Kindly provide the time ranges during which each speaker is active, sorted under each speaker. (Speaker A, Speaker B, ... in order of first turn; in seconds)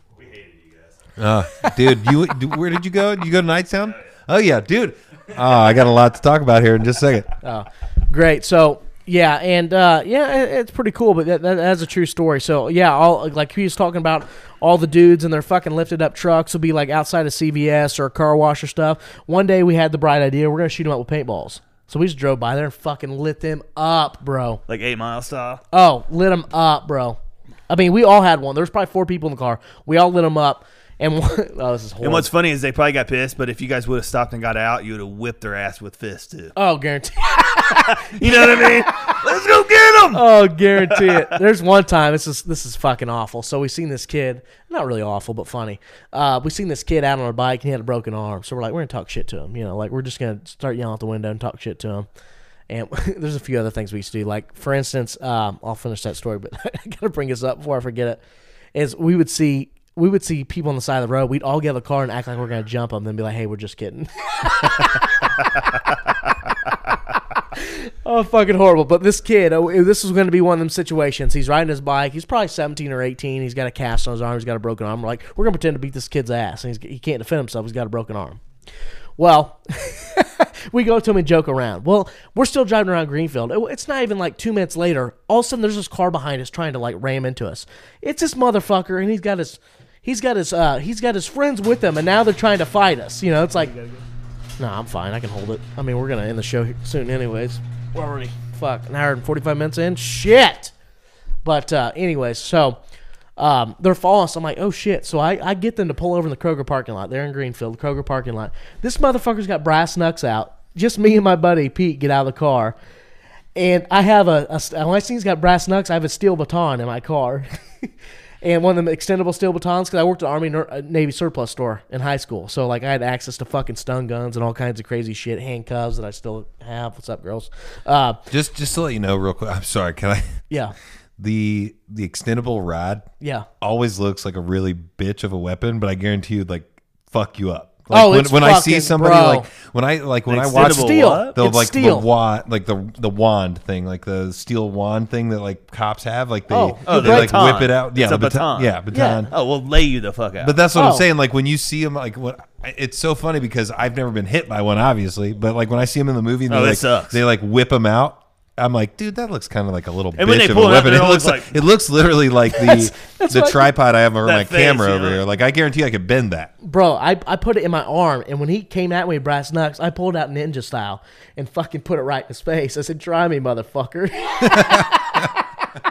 Speaker A: 0.2-0.9, 24.7-25.6, 32.0-36.5, 38.0-40.2, 40.9-41.2, 93.6-94.0, 140.3-141.4, 146.9-148.8, 149.3-150.6, 156.5-157.2, 160.2-161.5, 164.2-165.2
Speaker B: 1.2-7.3, 128.3-130.4, 131.2-133.1, 133.6-149.3, 150.4-166.5
Speaker C: 7.4-24.6, 25.7-27.2, 27.7-32.3, 36.6-38.8, 40.1-52.1, 52.7-58.2, 58.7-65.0, 67.6-78.4, 79.2-93.7, 94.6-100.7, 101.5-102.8, 103.4-112.8, 113.6-117.9, 118.4-128.2, 130.5-130.8, 133.2-133.5, 137.9-139.5, 140.6-142.1, 146.5-147.4, 148.9-149.3, 150.8-151.1, 162.6-163.7, 166.6-175.4